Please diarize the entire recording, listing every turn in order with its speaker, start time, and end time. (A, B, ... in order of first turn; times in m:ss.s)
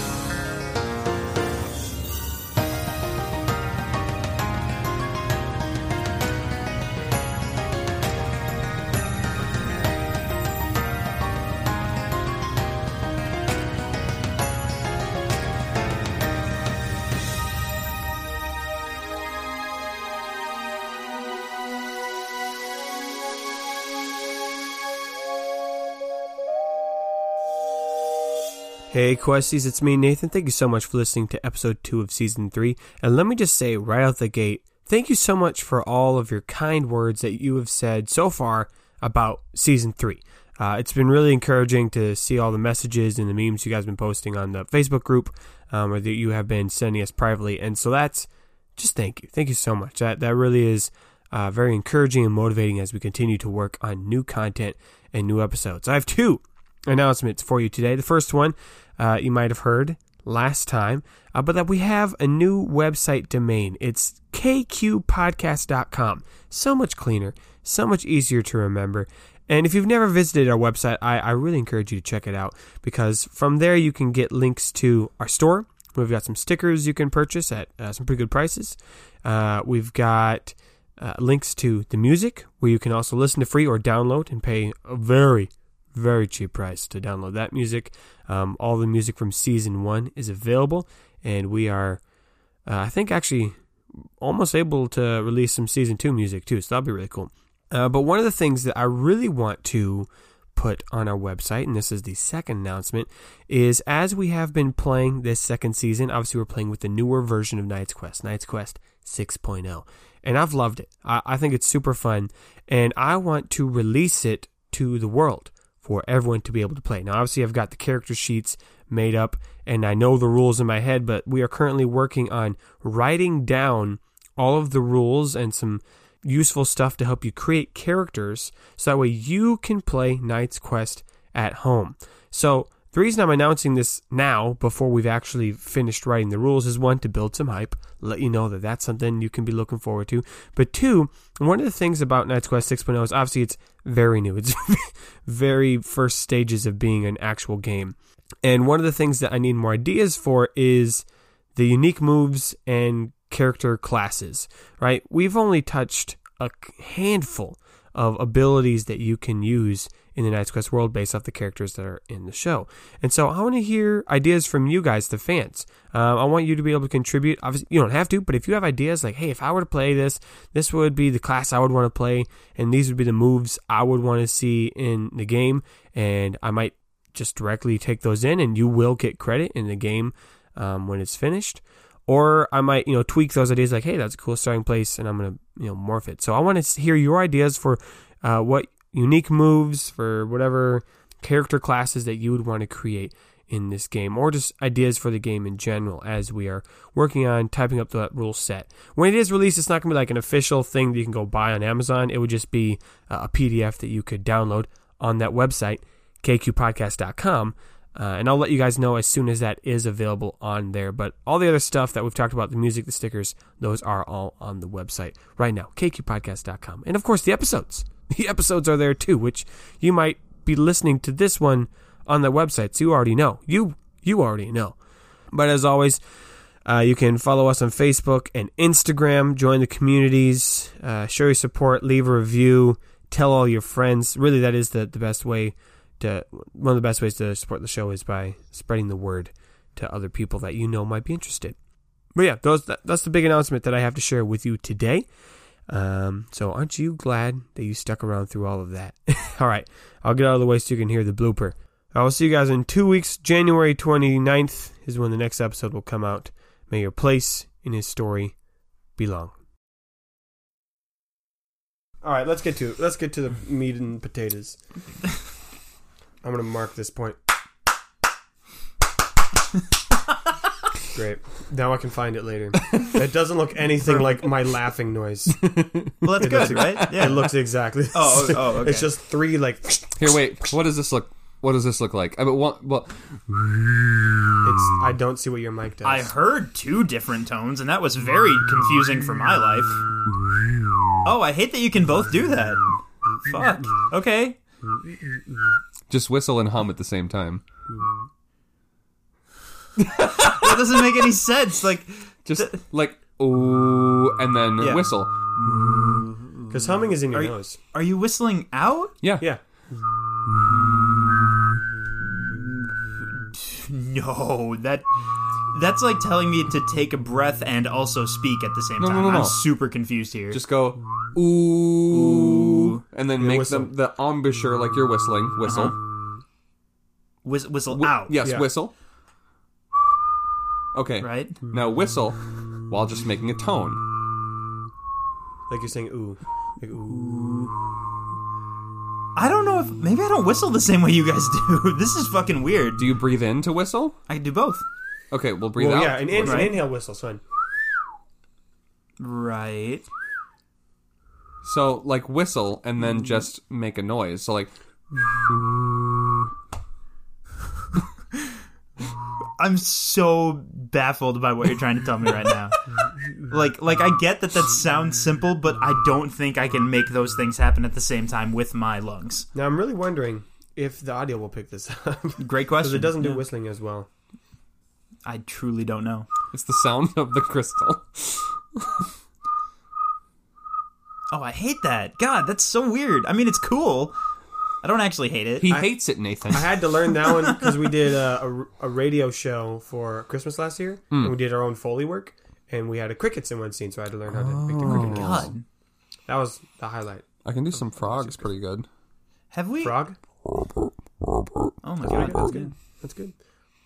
0:28.9-1:32.0 A
1:32.6-1:33.6 A
1:34.2-3:44.8 A
3:45.3-3:46.0 A
3:46.6-4:01.6 A
4:02.1-4:05.0 A
4:05.7-4:18.3 A
4:19.0-4:19.3 A
4:22.0-4:24.6 A
4:26.2-4:27.2 A
4:30.9-4:35.4 A
4:35.4-4:37.1 B
4:36.0-4:37.4 C
4:36.1-4:39.9 A
4:37.9-4:38.9 C
4:39.9-4:43.7 B
4:44.4-4:46.1 A
4:45.8-4:49.8 C
4:51.0-4:54.4 C
4:55.9-4:57.4 B
4:59.8-5:00.5 B
5:00.1-5:02.6 C
5:02.2-5:05.1 B
5:04.6-5:04.9 C
5:05.4-5:08.9 C
5:06.5-5:07.6 A
5:13.1-5:14.9 C
5:15.5-5:20.4 C
5:18.8-5:19.4 B
5:20.3-5:25.8 B
5:21.9-5:22.8 C
5:23.2-5:23.7 A
5:25.4-5:25.8 C
5:27.2-5:28.2 C
5:27.7-5:28.7 B
5:28.2-5:28.5 A
5:30.7-5:33.8 B
5:31.0-5:31.4 C
5:35.5-5:37.5 A
5:39.2-5:42.8 C
5:42.8-5:44.0 B
5:44.1-5:44.6 C
5:45.1-5:46.5 B
5:45.5-5:47.2 A
5:46.2-5:46.6 C
5:49.0-5:49.8 C
5:51.4-5:54.5 B
5:59.4-6:02.6 C
6:03.3-6:09.3 C
6:09.3-6:13.9 A
6:12.2-6:13.2 C
6:15.0-6:16.1 C
6:16.3-6:18.8 B
6:21.1-6:23.9 C
6:24.6-6:25.5 C
6:25.4-6:26.6 B
6:25.5-6:25.8 A
6:26.3-6:35.3 A
6:34.1-6:35.3 B
6:34.6-6:35.4 C
6:36.1-6:38.3 A
6:37.2-6:38.7 B
6:39.3-6:39.8 C
6:39.6-6:40.0 A
6:41.6-6:42.5 C
6:41.9-6:43.1 A